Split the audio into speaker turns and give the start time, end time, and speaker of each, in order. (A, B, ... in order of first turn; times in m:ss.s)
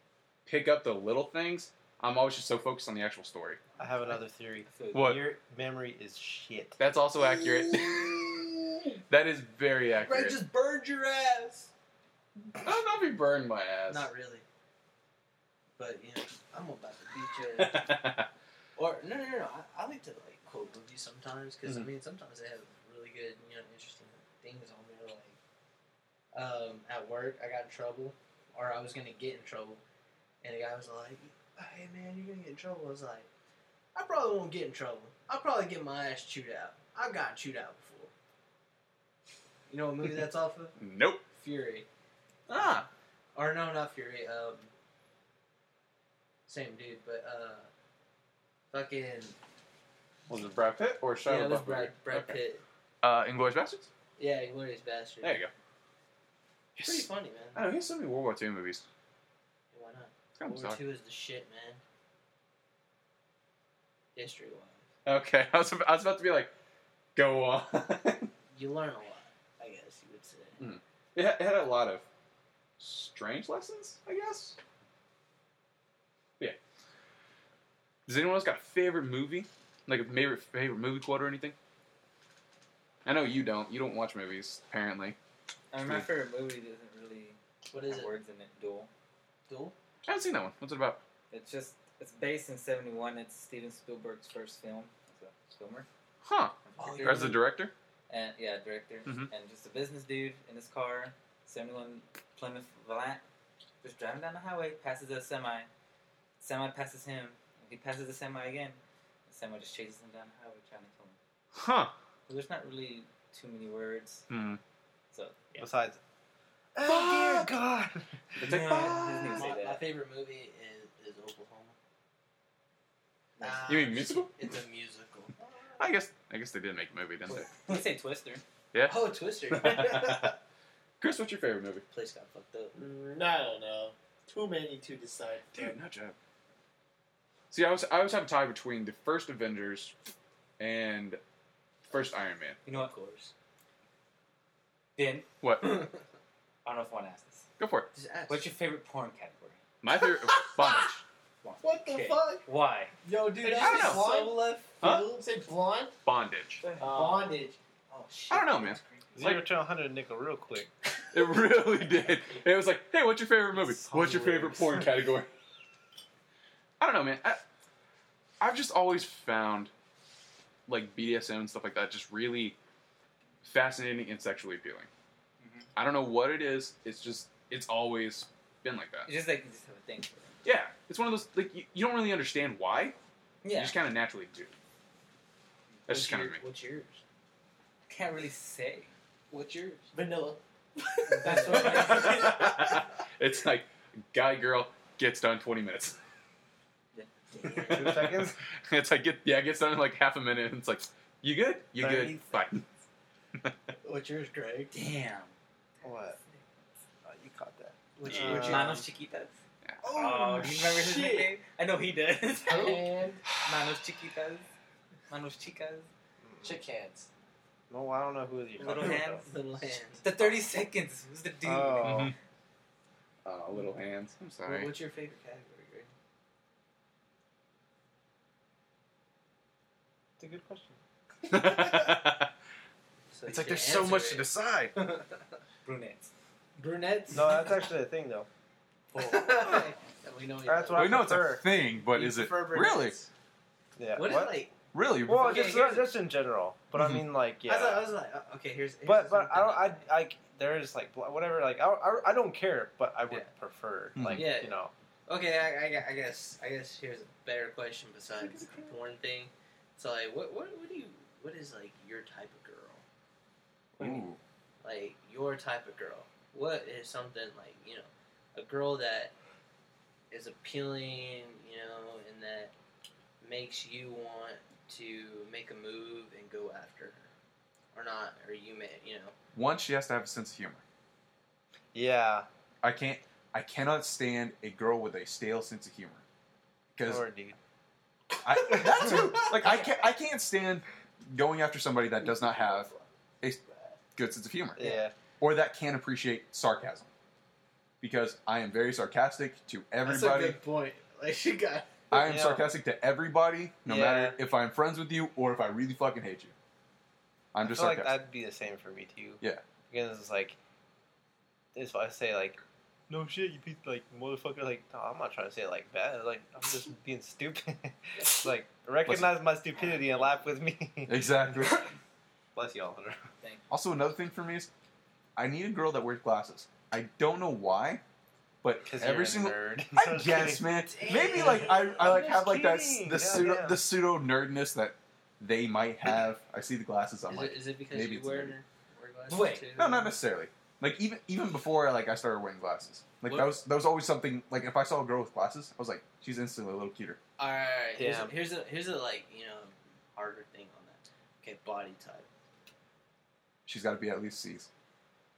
0:00.4-0:03.6 A
0:03.8-0:06.8 B
0:04.1-0:05.1 C
0:04.9-0:05.2 A
0:06.8-0:08.3 A
0:07.2-0:08.8 D
0:09.1-0:10.4 A
0:10.0-0:11.7 D
0:12.6-0:14.1 A
0:13.9-0:14.4 D
0:15.8-0:17.9 D
0:17.6-0:18.3 A
0:18.8-0:25.4 D
0:26.3-0:29.8 D
0:30.4-0:33.3 D
0:33.9-0:38.1 D
0:39.7-0:40.7 D
0:40.8-0:41.2 A
0:41.4-0:41.9 D
0:42.5-0:42.9 A
0:42.6-0:44.7 D
0:46.5-0:47.7 D
0:48.7-0:49.4 D
0:50.3-0:52.4 A
0:51.2-0:52.6 D
0:53.0-0:53.9 A
0:54.2-0:55.4 D
0:55.2-0:55.5 A
0:56.7-0:58.8 A
0:56.8-0:57.6 D
0:59.7-1:01.8 D
1:00.4-1:00.8 A
1:04.1-1:04.8 D
1:05.0-1:06.5 A
1:07.2-1:08.3 A
1:08.5-1:10.6 D
1:10.6-1:12.0 A
1:12.8-1:14.6 A
1:18.0-1:21.6 A
1:23.0-1:25.2 A
1:25.7-1:28.9 C
1:25.8-1:26.1 A
1:27.7-1:28.1 D
1:29.5-1:29.7 D
1:30.0-1:31.0 A
1:31.3-1:35.9 C
1:36.2-1:37.7 A
1:36.6-1:37.4 C
1:36.8-1:37.4 D
1:38.1-1:43.2 C
1:43.8-1:45.7 C
1:46.4-1:51.2 C
1:51.6-1:51.9 A
1:52.3-1:54.2 C
1:54.3-1:54.6 A
1:55.1-1:55.7 C
1:55.6-1:56.0 B
1:56.7-1:58.4 B
1:56.8-1:57.5 A
1:58.4-1:59.5 A
1:58.4-1:59.8 C
1:58.7-2:01.8 D
2:03.4-2:05.3 D
2:03.4-2:03.7 C
2:03.7-2:04.3 A
2:05.8-2:07.5 A
2:07.3-2:08.4 C
2:08.7-2:10.4 A
2:08.8-2:10.3 D
2:11.0-2:11.8 A
2:11.9-2:12.8 D
2:12.7-2:15.8 E
2:15.5-2:16.2 A
2:17.5-2:19.9 A
2:20.6-2:21.2 A
2:21.9-2:22.6 A
2:22.6-2:22.9 C
2:22.7-2:23.3 D
2:25.0-2:25.2 C
2:25.4-2:25.8 A
2:25.6-2:25.9 D
2:26.6-2:27.4 C
2:27.6-2:27.9 A
2:27.9-2:28.5 D
2:28.3-2:29.6 C
2:29.8-2:31.0 A
2:30.0-2:30.9 D
2:31.4-2:32.9 C
2:31.6-2:32.4 D
2:33.0-2:35.1 D
2:33.1-2:35.9 E
2:33.6-2:34.2 A
2:34.8-2:35.0 A
2:36.0-2:36.6 A
2:36.8-2:37.4 E
2:36.8-2:39.2 D
2:38.3-2:39.4 A
2:39.2-2:40.7 B
2:41.1-2:45.3 A
2:43.9-2:44.6 B
2:46.8-2:47.4 A
2:48.4-2:49.7 A
2:50.7-2:52.6 A
2:53.4-2:54.9 A
2:55.4-2:55.7 C
2:55.8-2:59.1 A
2:59.0-3:00.3 C
3:00.4-3:03.0 A
3:03.4-3:03.8 C
3:03.5-3:04.5 A
3:05.9-3:06.4 A
3:05.9-3:07.0 D
3:07.9-3:08.9 C
3:09.3-3:09.9 D
3:09.9-3:10.4 E
3:11.0-3:12.6 D
3:11.1-3:12.5 C
3:11.2-3:12.2 E
3:11.6-3:16.0 A
3:16.9-3:17.9 C
3:17.4-3:17.8 D
3:17.6-3:18.4 B
3:17.7-3:22.6 A
3:21.8-3:22.4 B
3:23.8-3:24.7 D
3:24.7-3:25.3 C
3:25.8-3:26.2 B
3:27.0-3:28.8 B
3:28.0-3:28.8 D
3:28.0-3:28.4 A
3:28.2-3:29.3 C
3:29.8-3:31.2 E
3:29.9-3:34.5 C
3:32.4-3:33.3 E
3:35.1-3:35.9 C
3:36.2-3:36.6 B
3:36.4-3:37.1 E
3:37.7-3:39.2 B
3:38.6-3:39.3 C
3:38.6-3:40.4 D
3:40.0-3:42.1 C
3:41.4-3:42.1 B
3:41.8-3:42.1 A
3:43.2-3:44.7 A
3:44.4-3:45.9 D
3:50.2-3:50.8 B
3:51.3-3:52.3 A
3:53.1-3:55.2 D
3:53.2-3:54.7 A
3:55.6-3:56.1 C
3:56.6-3:57.5 D
3:57.1-3:58.3 B
3:58.9-3:59.6 C
3:58.9-4:01.2 D
4:00.4-4:01.4 B
4:00.7-4:03.0 A
4:01.8-4:03.1 D
4:03.8-4:04.4 B
4:03.9-4:04.5 D
4:04.7-4:05.6 A
4:05.0-4:07.8 B
4:05.1-4:05.9 D
4:07.4-4:09.9 D
4:08.8-4:14.7 B
4:14.0-4:14.3 A
4:14.1-4:22.8 D
4:23.8-4:24.2 A
4:24.6-4:29.1 D
4:30.1-4:32.5 D
4:33.2-4:37.1 D
4:37.7-4:39.1 D
4:39.3-4:40.6 A
4:41.7-4:42.3 B
4:42.6-4:46.0 A
4:46.8-4:47.0 A
4:46.8-4:47.4 B
4:48.2-4:52.7 A
4:52.0-4:52.8 D
4:53.4-4:53.8 D
4:53.9-4:56.9 A
4:54.6-4:54.9 B
4:57.8-5:00.4 A
4:59.8-5:01.7 D
5:01.9-5:06.3 A
5:01.9-5:02.5 B
5:03.6-5:04.2 B
5:07.3-5:07.9 A
5:07.4-5:10.4 B
5:11.5-5:21.0 B
5:18.8-5:19.1 A
5:20.9-5:21.7 A
5:22.3-5:23.0 B
5:23.5-5:24.5 A
5:25.2-5:27.8 A
5:28.4-5:38.3 A
5:28.6-5:30.4 B
5:30.7-5:31.8 D
5:31.0-5:33.6 B
5:37.1-5:39.9 D
5:39.1-5:39.5 C
5:39.6-5:47.0 A
5:43.0-5:43.4 D
5:47.2-5:52.1 D
5:47.8-5:48.1 B
5:53.4-5:54.5 A